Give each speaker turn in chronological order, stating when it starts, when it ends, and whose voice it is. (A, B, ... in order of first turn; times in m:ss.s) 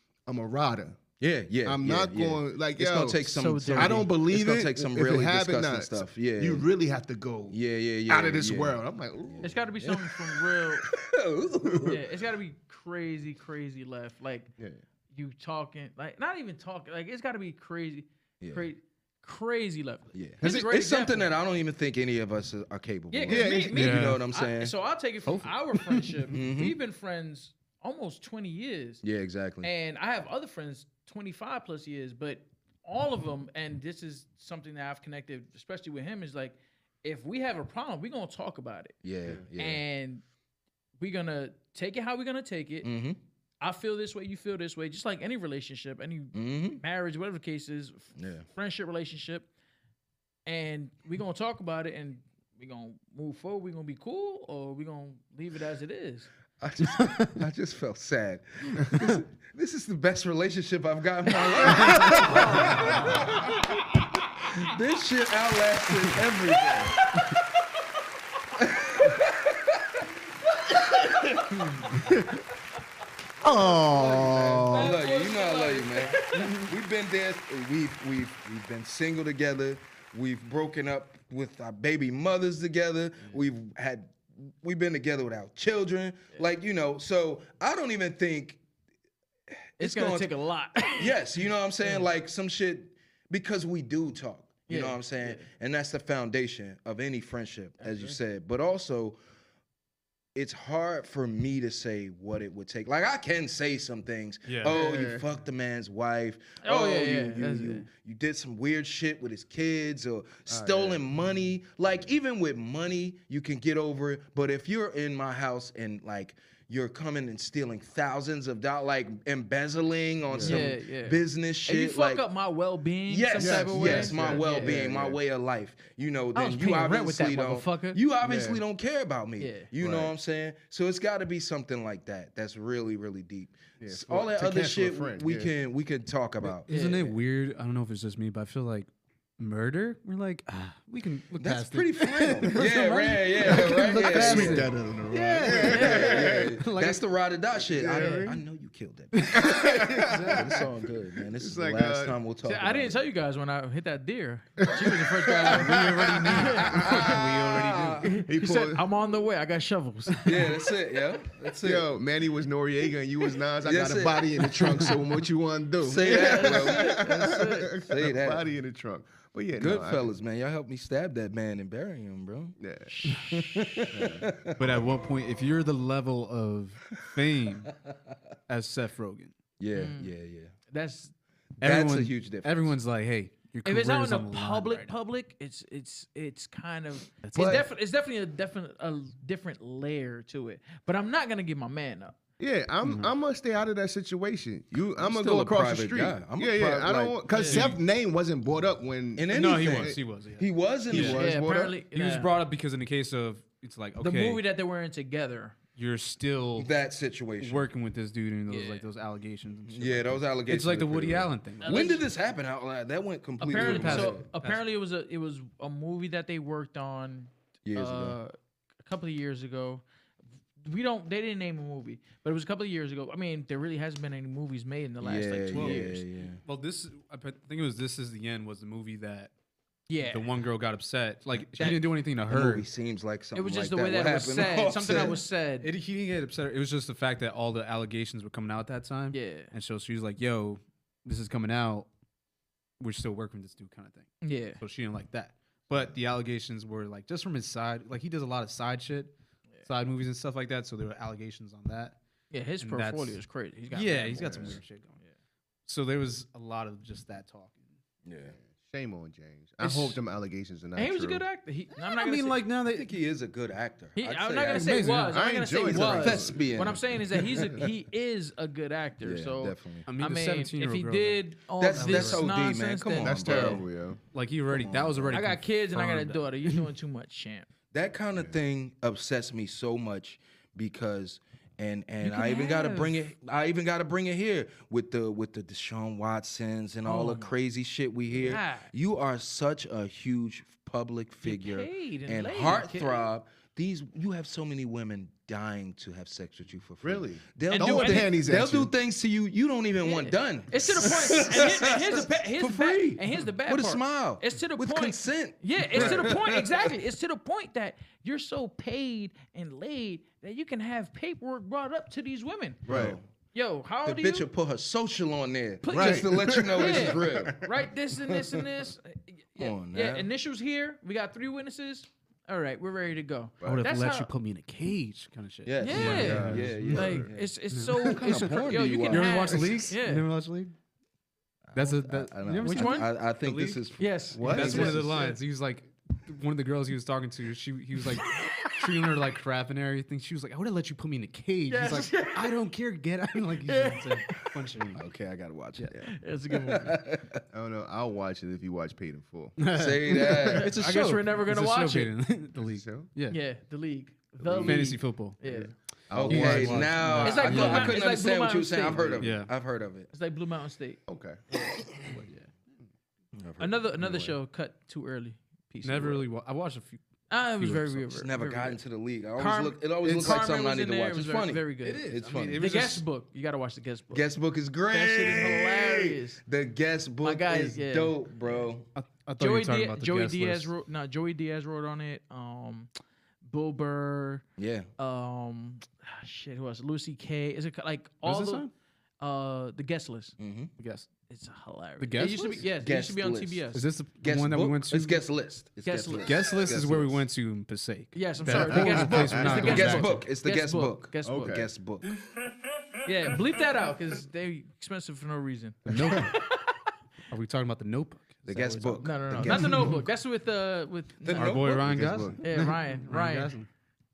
0:00.3-0:01.0 A
0:01.2-0:06.7 B
0:01.6-0:09.6 A
0:03.3-0:04.1 C
0:07.5-0:12.0 B
0:09.4-0:10.9 C
0:11.7-0:11.9 A
0:11.8-0:14.5 C
0:15.1-0:21.3 C
0:18.4-0:18.7 B
0:20.1-0:24.7 B
0:23.1-0:29.0 C
0:23.3-0:23.8 A
0:23.8-0:24.2 D
0:25.3-0:26.2 D
0:26.3-0:26.8 B
0:29.0-0:29.7 B
0:29.6-0:39.0 C
0:39.0-0:39.8 B
0:39.6-0:40.2 C
0:41.0-0:42.9 C
0:42.8-0:43.2 B
0:43.6-0:49.5 C
0:46.3-0:46.8 B
0:48.2-0:48.5 B
0:50.5-0:56.3 C
0:56.6-1:03.6 B
1:01.8-1:02.2 A
1:01.8-1:02.2 D
1:02.1-1:02.9 C
1:04.4-1:07.1 B
1:08.6-1:10.0 B
1:10.7-1:11.9 B
1:12.1-1:12.4 A
1:13.4-1:15.0 A
1:13.5-1:28.6 B
1:13.9-1:14.2 C
1:14.7-1:16.5 C
1:29.8-1:30.3 B
1:29.8-1:31.2 C
1:30.8-1:39.2 B
1:34.7-1:35.5 C
1:37.8-1:38.2 C
1:40.4-2:02.2 B
1:44.5-1:44.8 D
1:44.6-1:45.3 A
1:46.6-1:47.9 C
1:50.5-1:52.1 A
2:00.3-2:00.7 A
2:00.4-2:04.8 C
2:03.1-2:16.7 B
2:03.4-2:05.2 A
2:06.4-2:08.0 C
2:08.2-2:08.6 A
2:09.4-2:09.7 C
2:09.8-2:10.2 A
2:13.8-2:15.5 A
2:16.7-2:27.0 D
2:16.7-2:17.2 C
2:21.4-2:24.7 B
2:23.4-2:26.6 A
2:25.6-2:33.0 B
2:25.6-2:26.3 C
2:27.6-2:28.4 A
2:27.9-2:28.3 C
2:29.2-2:30.6 D
2:29.3-2:32.2 A
2:32.4-2:35.8 C
2:34.6-2:37.2 A
2:35.3-2:35.8 B
2:35.6-2:38.2 D
2:36.3-2:36.8 C
2:36.7-2:38.2 B
2:38.0-2:40.3 C
2:38.2-2:38.9 A
2:40.2-2:41.9 B
2:41.6-2:50.2 A
2:43.6-2:44.8 B
2:45.8-2:47.1 B
2:46.0-2:47.8 C
2:47.8-2:48.4 B
2:49.6-2:52.6 B
2:52.6-2:53.2 A
2:52.9-2:53.6 C
2:53.3-2:54.7 B
2:53.9-2:54.4 A
2:54.6-2:57.8 D
2:58.5-2:59.4 D
2:59.6-3:00.5 B
2:59.7-3:00.1 C
3:00.7-3:01.1 C
3:01.6-3:02.7 B
3:01.6-3:04.9 D
3:03.6-3:12.2 C
3:07.2-3:07.6 D
3:07.4-3:07.6 A
3:12.4-3:20.0 A
3:12.8-3:13.1 D
3:15.0-3:17.2 B
3:17.3-3:17.7 C
3:17.3-3:17.8 D
3:19.2-3:21.2 B
3:19.3-3:21.2 D
3:20.9-3:21.8 A
3:21.2-3:22.3 C
3:21.9-3:24.4 D
3:24.0-3:25.6 C
3:25.8-3:26.7 D
3:26.6-3:27.7 B
3:27.4-3:32.0 D
3:28.5-3:28.8 C
3:29.7-3:34.3 B
3:31.6-3:32.0 C
3:33.4-3:39.8 C
3:33.5-3:34.6 D
3:37.7-3:38.2 B
3:40.6-3:46.0 C
3:45.0-3:46.4 B
3:45.5-3:45.9 D
3:46.4-3:49.3 D
3:49.9-3:50.3 C
3:50.1-3:52.7 D
3:51.6-3:51.9 C
3:52.3-3:55.2 B
3:53.4-3:55.7 C
3:55.6-4:01.9 D
3:59.1-3:59.5 C
4:02.8-4:12.0 D
4:04.2-4:04.6 C
4:12.3-4:15.1 C
4:12.6-4:13.2 D
4:13.7-4:15.0 D
4:14.2-4:14.6 A
4:15.7-4:17.8 D
4:18.0-4:18.4 B
4:18.4-4:21.2 A
4:19.6-4:20.0 C
4:20.8-4:22.4 C
4:21.9-4:22.9 D
4:22.7-4:24.8 B
4:24.0-4:33.6 C
4:24.5-4:27.7 A
4:24.5-4:25.2 D
4:25.7-4:27.6 B
4:29.0-4:29.9 B
4:29.8-4:32.3 D
4:31.6-4:33.7 B
4:33.0-4:34.0 A
4:34.1-4:36.6 D
4:34.5-4:35.2 B
4:35.1-4:37.5 C
4:37.7-5:06.7 B
4:42.0-4:43.0 C
4:46.8-4:47.3 C
4:48.1-4:48.7 C
4:51.2-4:53.0 C
4:56.8-4:58.7 A
4:57.5-4:58.1 C
4:59.8-5:12.7 C
5:05.8-5:06.2 A
5:12.7-5:13.0 A
5:12.7-5:13.1 B
5:13.3-5:14.3 C
5:13.8-5:17.4 B
5:15.6-5:24.1 C
5:15.7-5:17.5 A
5:19.4-5:20.1 B
5:23.4-5:27.0 D
5:25.5-5:27.3 B
5:25.6-5:30.0 C
5:25.8-5:27.1 A
5:27.5-5:30.5 D
5:27.8-5:29.5 B
5:31.5-5:33.9 B
5:31.6-5:44.8 D
5:32.4-5:32.9 C
5:33.8-5:35.2 C
5:34.1-5:35.0 A
5:34.5-5:34.8 B
5:41.5-5:42.3 C
5:43.4-5:44.3 C
5:44.8-5:45.7 B
5:45.8-5:46.7 C
5:46.3-5:47.2 B
5:47.3-5:49.4 A
5:49.4-5:53.2 D
5:49.5-5:50.5 B
5:50.4-5:51.9 C
5:52.4-5:52.9 A
5:53.1-5:55.5 C
5:54.3-5:54.7 B
5:54.4-5:55.2 D
5:55.2-5:57.0 A
5:55.9-5:59.9 B
5:56.0-5:57.8 D
5:56.8-5:59.2 C
5:59.0-5:59.3 D
5:59.9-6:00.8 C
6:00.9-6:02.1 A
6:01.9-6:02.3 D
6:03.1-6:04.2 B
6:03.4-6:06.0 C
6:05.6-6:06.8 D
6:07.1-6:08.6 C
6:07.4-6:07.8 D
6:07.8-6:12.4 B
6:09.2-6:14.0 C
6:09.8-6:10.2 D
6:11.6-6:12.8 D
6:13.9-6:18.7 B
6:14.7-6:16.2 C
6:17.0-6:18.5 C
6:18.8-6:20.5 D
6:19.2-6:22.7 C
6:23.2-6:24.2 C
6:24.4-6:24.7 B
6:24.8-6:28.5 C
6:28.0-6:28.5 D
6:29.0-6:30.2 C
6:30.2-6:30.5 B
6:30.6-6:30.9 D
6:31.1-6:33.6 C
6:31.8-6:32.4 D
6:32.5-6:33.5 B
6:33.5-6:35.0 D
6:34.0-6:37.0 B
6:35.6-6:36.2 C
6:36.0-6:40.1 D
6:37.9-6:41.4 C
6:38.4-6:39.5 A
6:39.2-6:41.9 B
6:41.0-6:41.5 A
6:42.8-6:46.6 C
6:45.7-6:46.2 D
6:47.1-6:49.8 D
6:48.3-6:49.8 B
6:48.8-6:51.4 C
6:51.0-6:51.9 B
6:51.1-6:53.5 D
6:51.6-6:52.2 A
6:52.2-6:53.4 C